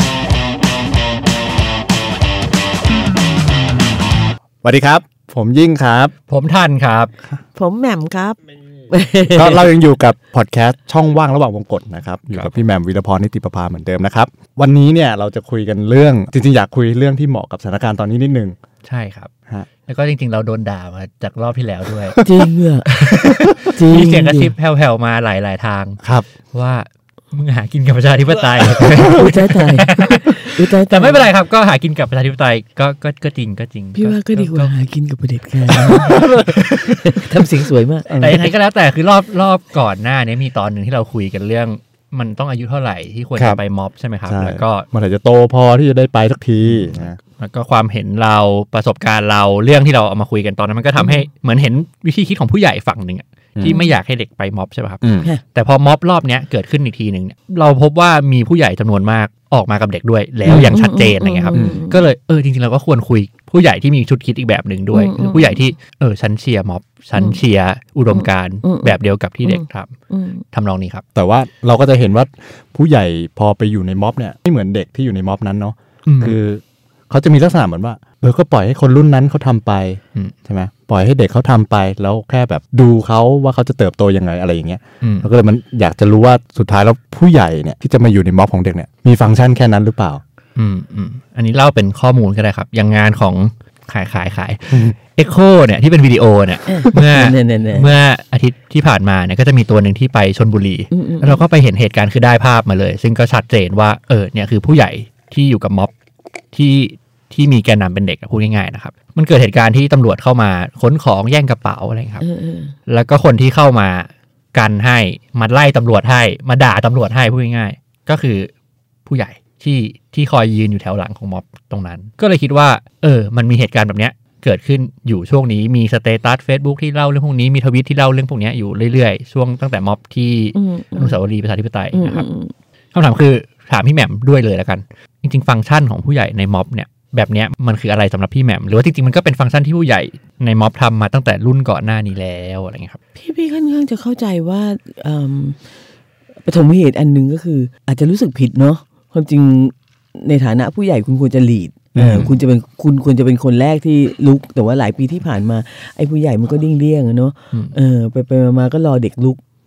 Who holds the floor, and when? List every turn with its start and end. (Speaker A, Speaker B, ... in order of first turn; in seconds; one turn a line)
Speaker A: 4.6-6.1
Speaker B: 6.3-7.1
Speaker C: 7.5-8.4
Speaker C: 8.9-9.7
Speaker A: 9.3-18.6
Speaker B: 18.8-19.3
Speaker B: 19.8-22.3
Speaker C: 22.2-24.5
Speaker B: 22.9-34.7
Speaker A: 23.2-23.6
Speaker A: 26.0-26.3
Speaker C: 29.1-31.2
Speaker C: 34.0-38.5
Speaker A: 35.8-36.6
Speaker A: 38.1-38.5
Speaker B: 38.2-44.9
Speaker A: 44.3-47.2
Speaker B: 46.6-70.0
Speaker C: 51.0-51.2
Speaker A: 53.6-53.8
Speaker C: 53.6-54.0
Speaker A: 55.0-55.3
Speaker A: 60.5-60.8
Speaker C: 60.5-62.0
Speaker A: 61.5-61.8
Speaker C: 64.9-65.7
Speaker C: 67.2-67.4
Speaker C: 68.1-70.5
Speaker B: 70.5-71.0
Speaker A: 71.2-90.2
Speaker B: 76.1-76.4
Speaker B: 85.0-85.3
Speaker B: 90.6-105.9
Speaker C: 96.7-97.9
Speaker C: 100.9-101.4
Speaker B: 106.5-112.2
Speaker C: 112.2-112.8
Speaker B: 112.9-118.5
Speaker B: 119.1-132.2
Speaker C: 130.6-131.2
Speaker C: 131.9-132.5
Speaker B: 132.9-143.0
Speaker C: 143.2-145.6
Speaker C: 146.5-159.4
Speaker A: 151.9-152.3